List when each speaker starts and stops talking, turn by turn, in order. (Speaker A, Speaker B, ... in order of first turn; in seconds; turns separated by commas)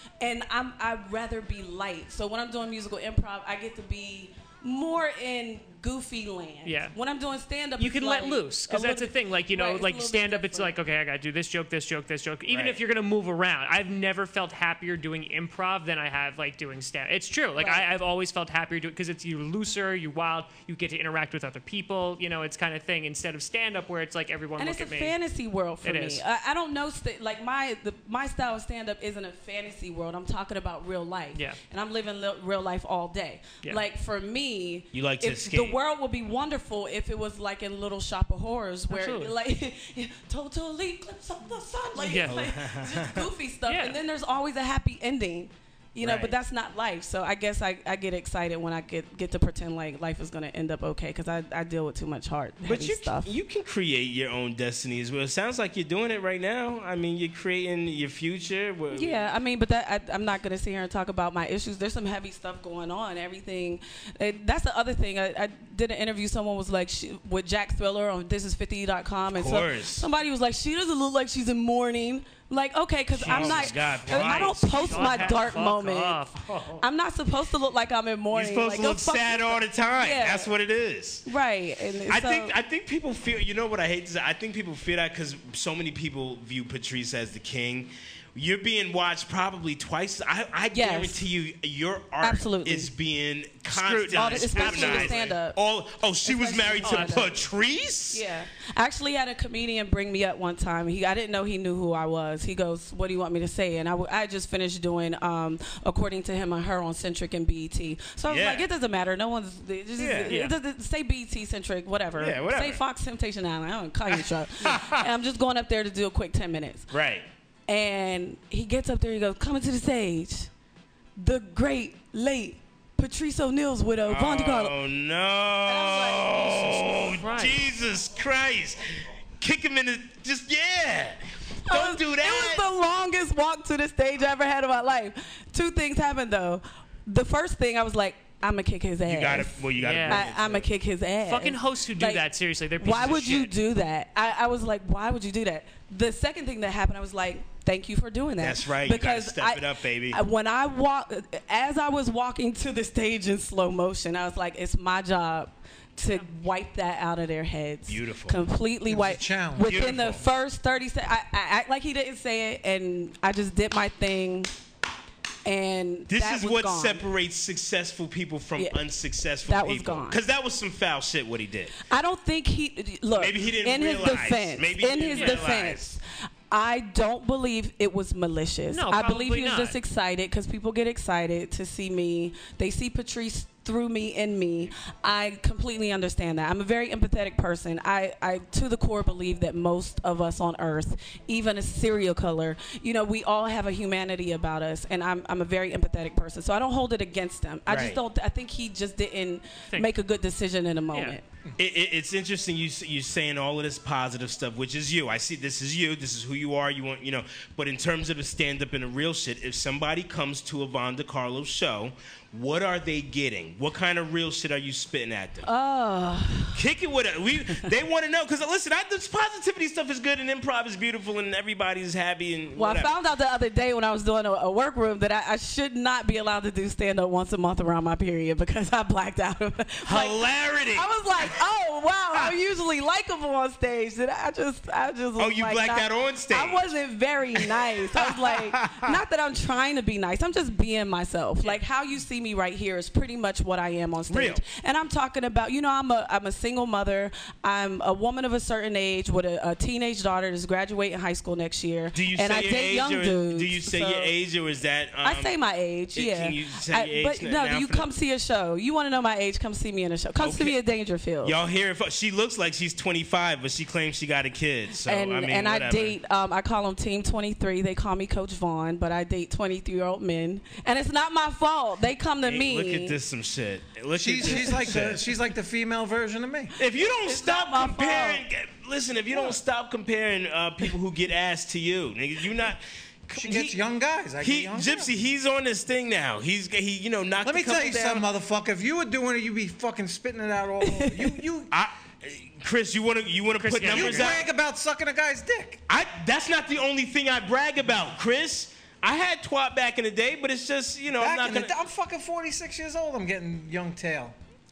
Speaker A: 0.2-10.7, Speaker B: 6.6-6.9, Speaker B: 7.8-25.1, Speaker C: 12.5-12.8, Speaker A: 17.6-17.9, Speaker A: 24.6-53.3, Speaker B: 25.8-26.2, Speaker C: 34.9-35.8, Speaker B: 38.9-39.3, Speaker B: 42.0-42.4, Speaker C: 42.2-43.2, Speaker B: 43.7-44.0, Speaker C: 46.0-46.3, Speaker C: 52.6-59.2, Speaker A: 58.9-76.2, Speaker C: 69.3-70.1, Speaker C: 73.1-75.5, Speaker B: 73.2-76.8, Speaker A: 76.8-80.5, Speaker C: 78.3-81.2, Speaker A: 81.2-82.5, Speaker C: 82.1-98.2, Speaker A: 90.7-91.2, Speaker A: 92.2-92.9, Speaker B: 93.7-95.2, Speaker A: 93.9-95.6, Speaker A: 96.2-97.5, Speaker B: 96.8-97.3, Speaker A: 98.1-116.9, Speaker C: 108.3-108.6, Speaker C: 110.0-110.4, Speaker B: 110.3-110.5, Speaker C: 112.2-112.8, Speaker C: 114.6-115.0, Speaker C: 116.9-117.3, Speaker A: 117.7-120.5, Speaker A: 121.2-124.8, Speaker C: 124.1-128.8, Speaker A: 125.6-127.2, Speaker B: 127.1-127.6, Speaker C: 129.4-132.6, Speaker A: 131.7-142.2, Speaker C: 139.1-140.7, Speaker B: 139.8-140.2, Speaker B: 141.2-143.5, Speaker A: 142.8-164.5, Speaker C: 148.4-150.2, Speaker C: 157.9-158.4, Speaker D: 158.8-159.9, Speaker C: 159.6-160.2, Speaker A: 165.4-167.0, Speaker C: 166.1-171.7, Speaker A: 169.4-170.2, Speaker A: 171.8-176.0, Speaker C: 173.2-176.0, Speaker B: 175.1-175.5, Speaker A: 176.5-201.2, Speaker B: 178.7-179.8, Speaker C: 197.7-198.0, Speaker B: 200.9-201.2, Speaker C: 201.6-215.4, Speaker A: 215.4-216.6, Speaker C: 216.5-222.9, Speaker A: 222.6-254.1, Speaker C: 229.8-231.3, Speaker C: 235.2-236.6, Speaker C: 237.4-238.9, Speaker C: 244.1-244.4, Speaker C: 251.9-255.3, Speaker A: 255.0-261.4, Speaker C: 255.9-257.9, Speaker C: 260.2-260.6, Speaker C: 261.2-265.9, Speaker A: 264.7-273.0, Speaker C: 272.2-275.0, Speaker D: 274.0-276.5, Speaker C: 276.6-283.6, Speaker A: 276.8-278.2, Speaker D: 283.1-284.9, Speaker C: 284.2-288.1, Speaker D: 287.2-291.5, Speaker A: 290.7-291.1, Speaker C: 291.5-294.2, Speaker B: 293.4-294.2, Speaker D: 293.6-295.6, Speaker C: 295.7-301.5, Speaker D: 300.9-304.1